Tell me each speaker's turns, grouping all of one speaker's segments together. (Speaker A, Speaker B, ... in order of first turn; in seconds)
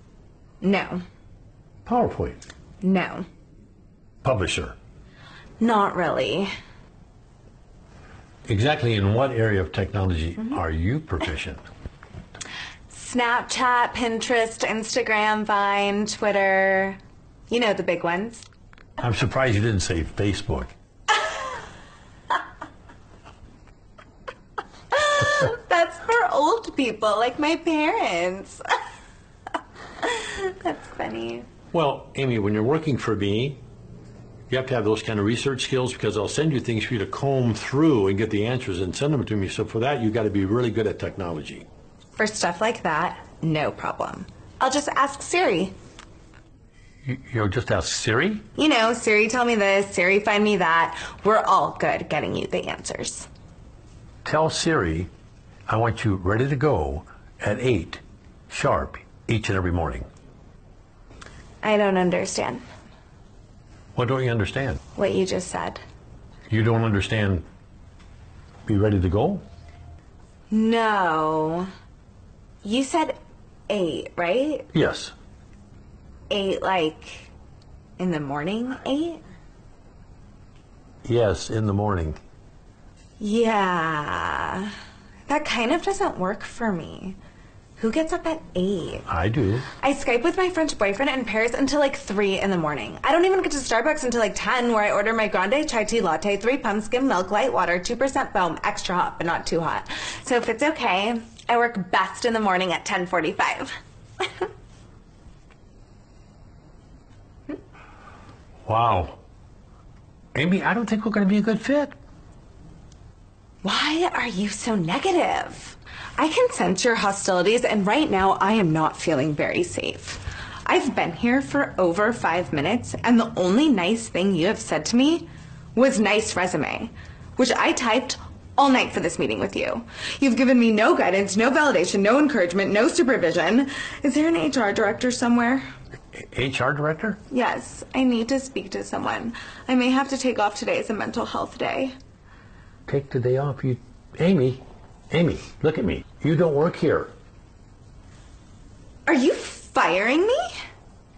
Speaker A: 0.6-1.0, 2.8-3.2, 5.6-6.5, 12.9-17.0, 17.5-18.4, 24.9-28.6, 30.0-31.5, 42.2-45.7, 48.5-53.3, 61.6-62.6, 65.0-65.8, 70.5-71.7, 72.6-73.2, 73.7-74.7, 76.3-77.3, 78.0-79.2, 83.2-84.7, 85.3-87.2, 87.8-89.1, 89.8-104.5, 113.6-135.6, 137.3-141.9, 149.1-150.5
Speaker B: 1.8-2.4, 4.2-4.8, 8.4-11.6, 19.0-20.7, 31.7-33.6, 34.5-41.7, 47.0-48.4, 54.2-55.1, 55.7-60.0, 64.0-64.8, 66.5-67.4, 68.7-69.4, 74.7-75.1, 81.0-82.2, 89.1-89.7, 108.7-109.2, 110.3-111.9, 136.2-137.2, 142.9-147.1